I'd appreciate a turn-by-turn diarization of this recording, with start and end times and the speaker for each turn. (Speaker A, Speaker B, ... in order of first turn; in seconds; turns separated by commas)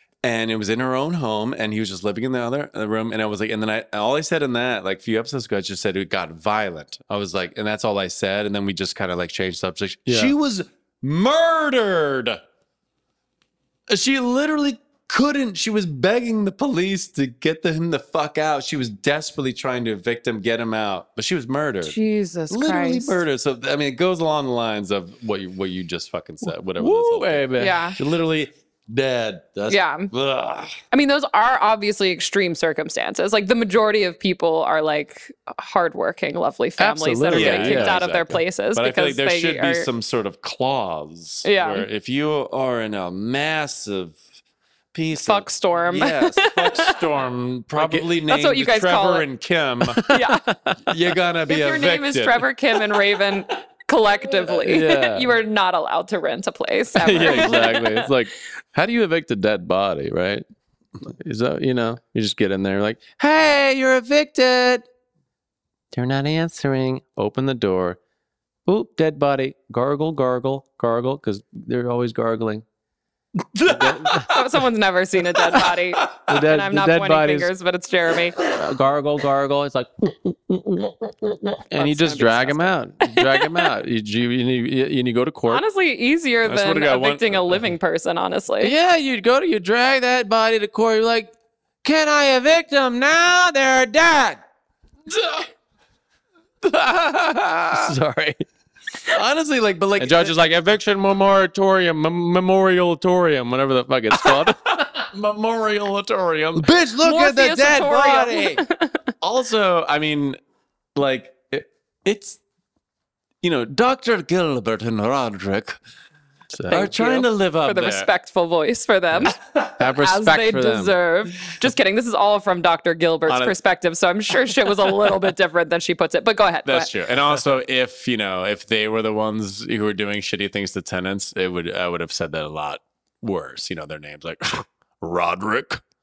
Speaker A: 0.2-12.4, Speaker B: 10.1-10.3, Speaker A: 13.9-21.9, Speaker C: 21.8-23.2, Speaker A: 22.5-30.7, Speaker B: 26.8-27.8, Speaker C: 27.6-28.0, Speaker C: 29.7-30.1, Speaker C: 30.9-39.9, Speaker B: 36.8-38.1, Speaker A: 37.3-44.2, Speaker C: 41.4-41.9, Speaker A: 44.9-50.1, Speaker C: 45.1-47.0, Speaker B: 47.7-48.0, Speaker C: 48.3-49.2, Speaker B: 50.0-50.9, Speaker C: 50.1-50.5, Speaker A: 50.9-52.8, Speaker C: 51.5-58.1, Speaker B: 54.4-55.3, Speaker B: 57.0-60.4, Speaker A: 57.2-57.5, Speaker B: 61.0-64.9, Speaker B: 65.9-68.0, Speaker B: 68.7-72.6, Speaker A: 73.5-74.3, Speaker B: 73.7-74.3, Speaker C: 74.3-78.4, Speaker B: 76.3-77.5, Speaker B: 78.4-85.6, Speaker C: 81.8-83.4, Speaker C: 85.5-88.7, Speaker A: 86.5-87.6, Speaker B: 88.6-91.3, Speaker B: 91.8-94.4, Speaker A: 95.1-95.4, Speaker B: 96.6-98.4, Speaker A: 99.1-100.4, Speaker B: 100.0-104.8, Speaker A: 104.2-108.6, Speaker C: 107.0-109.0, Speaker A: 109.2-110.4, Speaker A: 111.0-112.4, Speaker A: 113.4-115.8, Speaker B: 116.5-116.9, Speaker A: 116.7-118.1, Speaker C: 116.7-119.4, Speaker B: 119.8-121.0, Speaker C: 120.0-126.9, Speaker A: 123.3-123.5, Speaker A: 124.8-125.1, Speaker A: 126.7-135.8